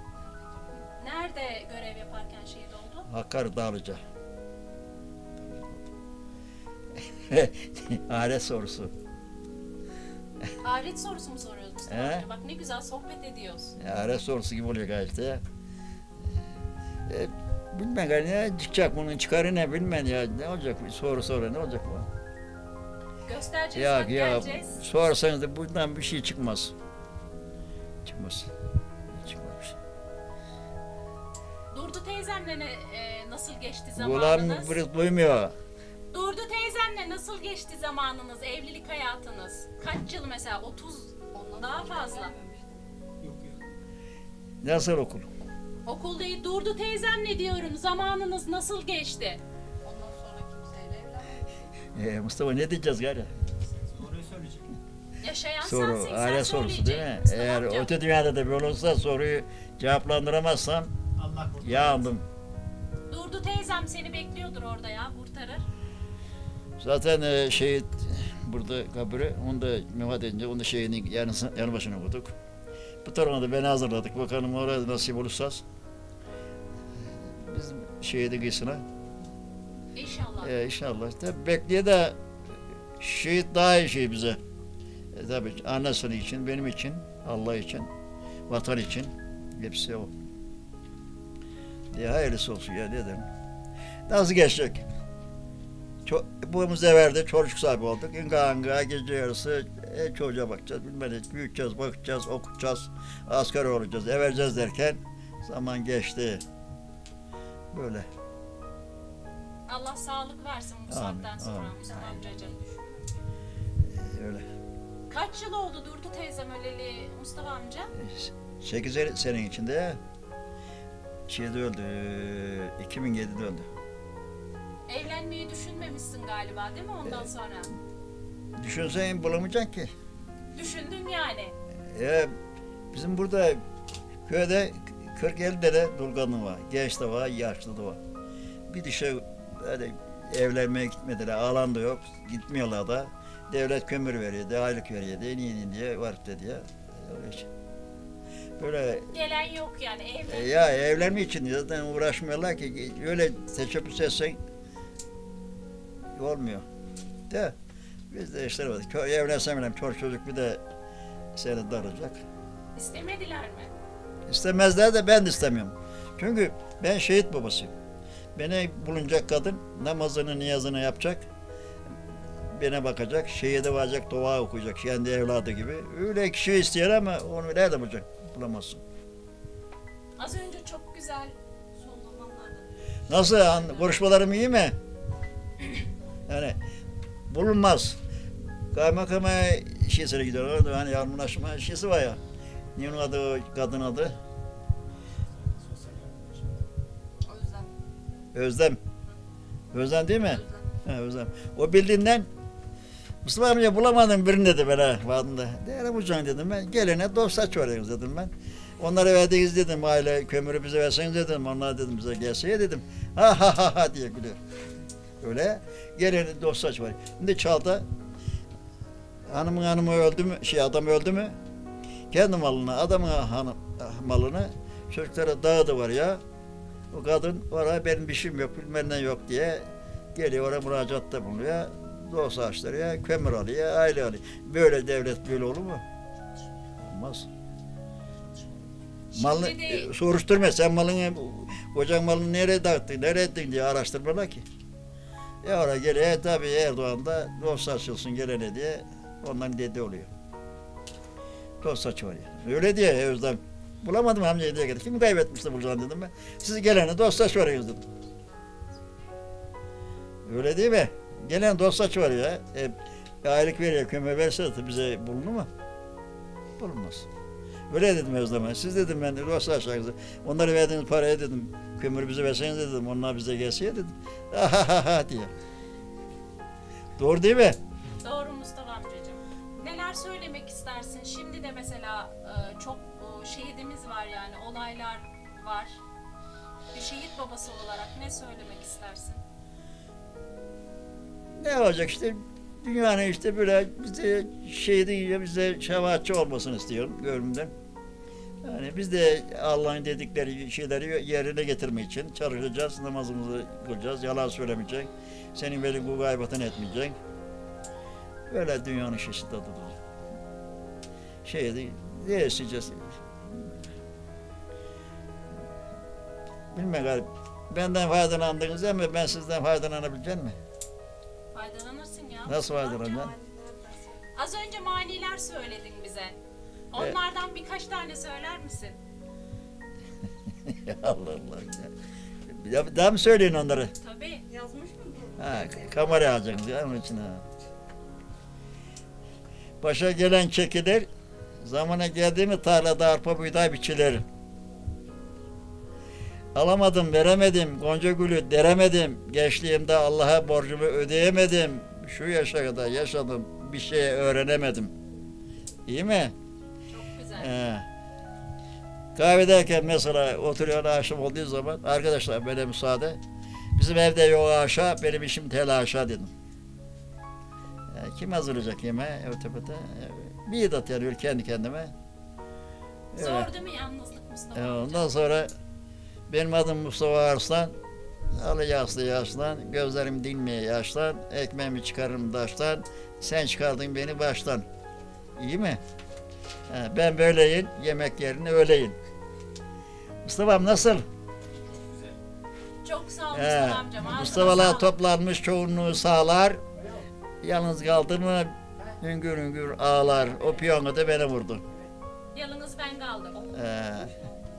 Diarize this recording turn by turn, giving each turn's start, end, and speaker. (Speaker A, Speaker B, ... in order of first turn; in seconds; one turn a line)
Speaker A: 0.8-3.1
Speaker B: 3.1-4.0
Speaker B: 5.4-5.8
Speaker B: 7.1-8.9
Speaker A: 10.6-13.8
Speaker B: 11.9-12.2
Speaker B: 13.8-15.4
Speaker B: 17.1-22.1
Speaker A: 23.2-24.8
Speaker B: 23.7-26.7
Speaker B: 28.0-28.5
Speaker B: 29.1-29.8
Speaker A: 31.7-34.8
Speaker B: 34.0-35.5
Speaker A: 36.1-42.3
Speaker C: 41.3-42.8
Speaker D: 43.2-43.5
Speaker B: 44.6-45.3
Speaker A: 45.8-49.4
Speaker C: 49.8-51.6
Speaker B: 51.9-53.3
Speaker D: 53.9-54.7
Speaker A: 55.2-57.9
Speaker B: 55.6-60.9
Speaker D: 61.2-61.7
Speaker B: 61.6-62.2
Speaker A: 63.1-65.6
Speaker B: 66.8-72.3
Speaker B: 73.0-75.6
Speaker B: 77.3-78.8
Speaker A: 79.9-80.5
Speaker B: 80.4-84.4
Speaker B: 85.1-87.9
Speaker B: 88.5-90.1
Speaker B: 91.9-93.3
Speaker B: 94.1-94.8
Speaker B: 96.0-106.4
Speaker B: 107.7-108.0
Speaker A: 109.7-112.6
Speaker B: 110.9-111.8
Speaker C: 111.8-113.1
Speaker B: 113.8-114.4
Speaker A: 115.1-117.9
Speaker B: 117.9-120.0
Speaker B: 121.3-123.7
Speaker A: 124.9-127.7
Speaker B: 128.6-129.9
Speaker A: 130.5-131.5
Speaker B: 131.9-132.3
Speaker B: 132.9-133.6
Speaker B: 134.2-138.0
Speaker B: 138.7-147.5
Speaker B: 148.6-149.1
Speaker A: 149.1-150.9
Speaker B: 150.3-154.4
Speaker B: 156.1-156.6
Speaker B: 157.3-157.5
Speaker B: 158.1-160.6
Speaker B: 161.3-162.2
Speaker A: 162.7-163.7
Speaker B: 164.3-167.7
Speaker B: 168.3-171.2
Speaker B: 172.4-178.8
Speaker A: 180.2-181.3
Speaker C: 181.7-183.7
Speaker B: 183.1-184.8
Speaker B: 186.3-186.6
Speaker B: 187.3-188.0
Speaker B: 188.7-192.2
Speaker B: 192.7-194.2
Speaker D: 195.5-196.6
Speaker C: 197.2-197.7
Speaker B: 198.3-198.8
Speaker B: 199.7-202.3
Speaker C: 200.3-200.7
Speaker B: 203.2-214.4
Speaker B: 215.2-217.8
Speaker B: 219.3-221.3
Speaker B: 222.1-226.2
Speaker B: 226.9-235.8
Speaker B: 236.8-237.3
Speaker B: 239.1-244.4
Speaker A: 239.1-239.9
Speaker B: 245.4-250.1
Speaker B: 251.6-257.9
Speaker B: 260.2-265.5
Speaker B: 266.6-267.1
Speaker B: 267.7-275.3
Speaker B: 277.0-277.6
Speaker A: 278.0-285.8
Speaker A: 286.7-289.2
Speaker B: 291.4-297.5
Speaker B: 298.4-307.0
Speaker B: 308.3-309.8
Speaker B: 311.2-313.5
Speaker B: 316.5-320.4
Speaker A: 321.3-322.6
Speaker B: 322.2-323.1
Speaker C: 322.5-324.1
Speaker A: 324.1-326.1
Speaker A: 326.7-328.8
Speaker B: 330.4-331.7
Speaker B: 332.3-333.7
Speaker A: 333.8-334.3
Speaker C: 334.3-335.9
Speaker B: 335.2-337.2
Speaker B: 339.6-340.9
Speaker B: 341.4-344.0
Speaker B: 346.3-354.7
Speaker B: 355.7-356.1
Speaker A: 356.7-357.3
Speaker B: 357.1-357.6
Speaker B: 358.9-363.0
Speaker B: 363.5-366.1
Speaker B: 367.7-371.7
Speaker B: 372.9-373.3
Speaker A: 372.9-375.0
Speaker B: 374.3-375.3
Speaker B: 376.1-377.5
Speaker B: 378.1-384.4
Speaker B: 385.2-385.6
Speaker B: 386.5-388.8
Speaker B: 390.0-390.8
Speaker A: 392.6-394.8
Speaker B: 393.1-396.4
Speaker B: 397.2-401.4
Speaker A: 402.1-403.3
Speaker B: 403.3-404.0